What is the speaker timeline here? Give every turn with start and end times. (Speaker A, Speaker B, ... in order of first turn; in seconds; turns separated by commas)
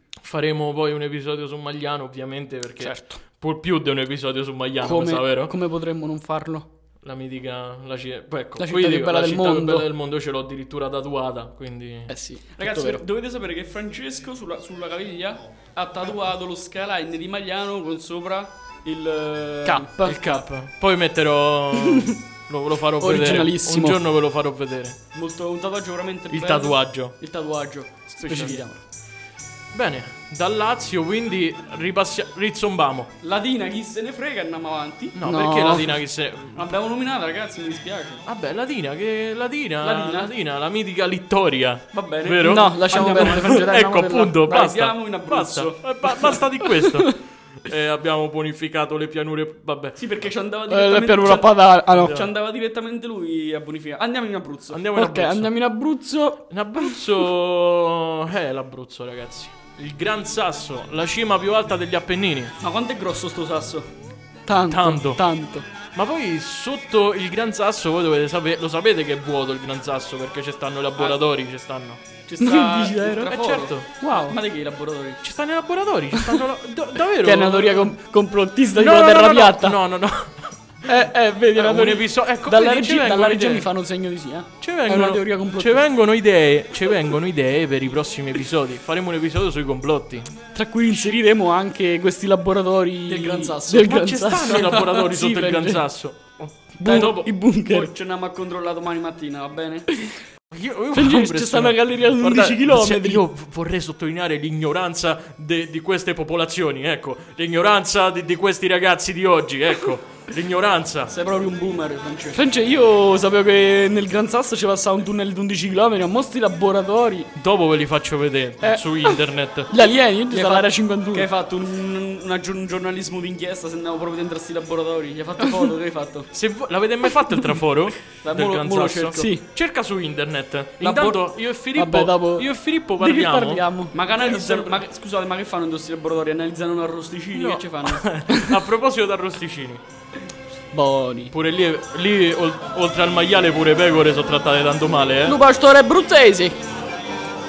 Speaker A: 0.2-5.5, Speaker B: 2.8-3.2, Speaker B: 4.8-6.7, Speaker A: 7.0-12.1, Speaker B: 8.6-9.9, Speaker B: 12.1-13.0, Speaker C: 12.6-20.4, Speaker B: 19.6-20.2, Speaker A: 20.0-25.0, Speaker B: 23.0-24.0, Speaker C: 25.1-28.7, Speaker A: 26.3-27.1, Speaker B: 28.3-28.8, Speaker A: 28.3-28.6, Speaker A: 29.7-33.1, Speaker C: 33.2-35.1, Speaker A: 35.1-36.7, Speaker B: 35.2-35.9, Speaker C: 36.5-38.2, Speaker A: 38.2-50.0, Speaker C: 39.8-40.3, Speaker C: 41.9-43.6, Speaker B: 42.4-44.4, Speaker C: 44.4-46.3, Speaker C: 50.0-54.8, Speaker B: 50.7-52.2, Speaker A: 52.0-52.3, Speaker A: 54.7-55.5, Speaker B: 54.9-57.0, Speaker A: 56.5-62.5, Speaker C: 62.6-63.9, Speaker B: 64.5-65.6, Speaker A: 64.7-65.2, Speaker A: 65.9-72.0, Speaker C: 72.2-75.2, Speaker B: 72.4-73.3, Speaker A: 73.3-73.9, Speaker B: 74.0-74.4, Speaker A: 75.2-78.0, Speaker B: 77.2-79.8, Speaker A: 78.7-80.6, Speaker B: 80.8-85.8, Speaker A: 81.5-83.7, Speaker A: 84.6-90.3, Speaker B: 90.5-95.8, Speaker C: 93.1-94.9, Speaker A: 93.7-97.3, Speaker B: 96.8-97.9, Speaker C: 96.8-99.9, Speaker A: 100.5-111.1, Speaker B: 100.9-103.2, Speaker C: 111.1-112.4, Speaker B: 112.3-117.3, Speaker A: 117.3-119.7, Speaker B: 118.6-119.2, Speaker B: 119.7-121.3, Speaker C: 120.3-126.3, Speaker A: 126.3-133.6, Speaker C: 128.2-129.3, Speaker B: 129.1-129.4, Speaker C: 130.8-131.2, Speaker B: 131.7-134.7, Speaker C: 133.9-138.0, Speaker A: 137.3-139.8, Speaker B: 138.3-138.6, Speaker B: 140.7-141.3, Speaker A: 141.3-145.4, Speaker B: 145.2-146.6